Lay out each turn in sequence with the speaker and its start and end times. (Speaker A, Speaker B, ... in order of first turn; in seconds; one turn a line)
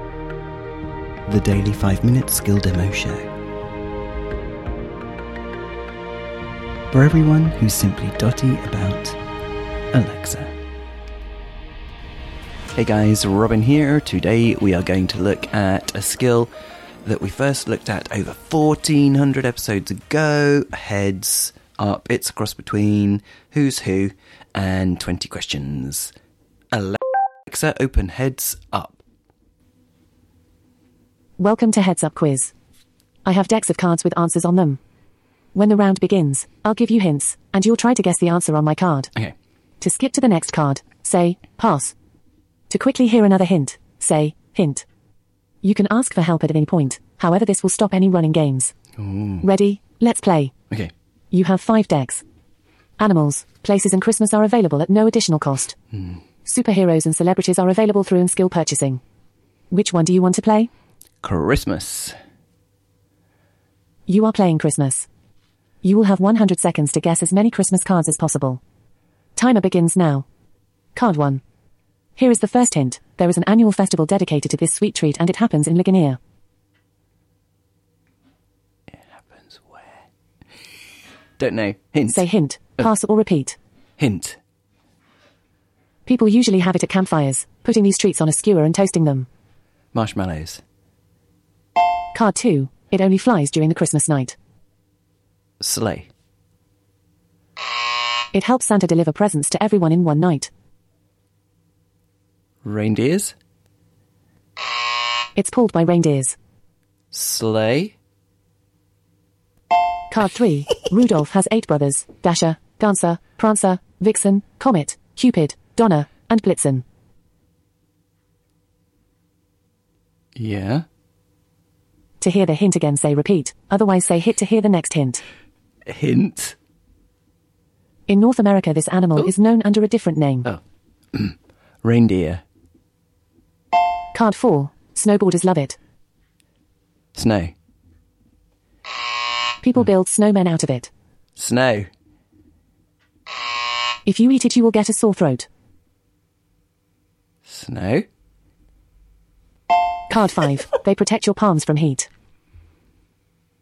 Speaker A: 1.3-3.3
Speaker A: 6.9-9.2
Speaker A: 9.9-10.6
Speaker A: 12.7-16.5
Speaker A: 17.0-26.1
Speaker A: 26.7-29.0
Speaker B: 31.4-32.5
Speaker B: 33.2-34.8
Speaker B: 35.5-39.1
Speaker B: 39.8-41.9
Speaker B: 42.7-44.9
Speaker B: 45.6-48.7
Speaker A: 49.0-49.5
Speaker B: 49.4-50.5
Speaker B: 51.3-52.2
Speaker B: 53.0-55.7
Speaker B: 56.5-59.0
Speaker B: 59.7-60.7
Speaker A: 61.2-62.1
Speaker B: 64.1-65.1
Speaker B: 65.8-68.6
Speaker B: 69.3-70.2
Speaker B: 70.9-71.4
Speaker B: 72.2-76.2
Speaker A: 78.9-79.9
Speaker A: 81.4-82.2
Speaker B: 82.1-83.6
Speaker A: 84.0-84.4
Speaker B: 86.1-89.3
Speaker A: 89.9-90.6
Speaker B: 92.1-94.3
Speaker A: 95.6-96.1
Speaker B: 98.3-100.5
Speaker A: 102.6-103.3
Speaker B: 105.4-106.4
Speaker A: 107.1-108.0
Speaker B: 110.1-116.8
Speaker A: 120.3-120.8
Speaker B: 122.2-125.2
Speaker A: 125.9-126.5
Speaker B: 128.1-130.5
Speaker A: 131.1-132.4
Speaker B: 134.1-135.8
Speaker A: 137.1-137.5
Speaker B: 139.6-140.9
Speaker A: 141.3-141.9
Speaker B: 144.1-145.5
Speaker A: 147.4-148.1
Speaker B: 150.1-152.1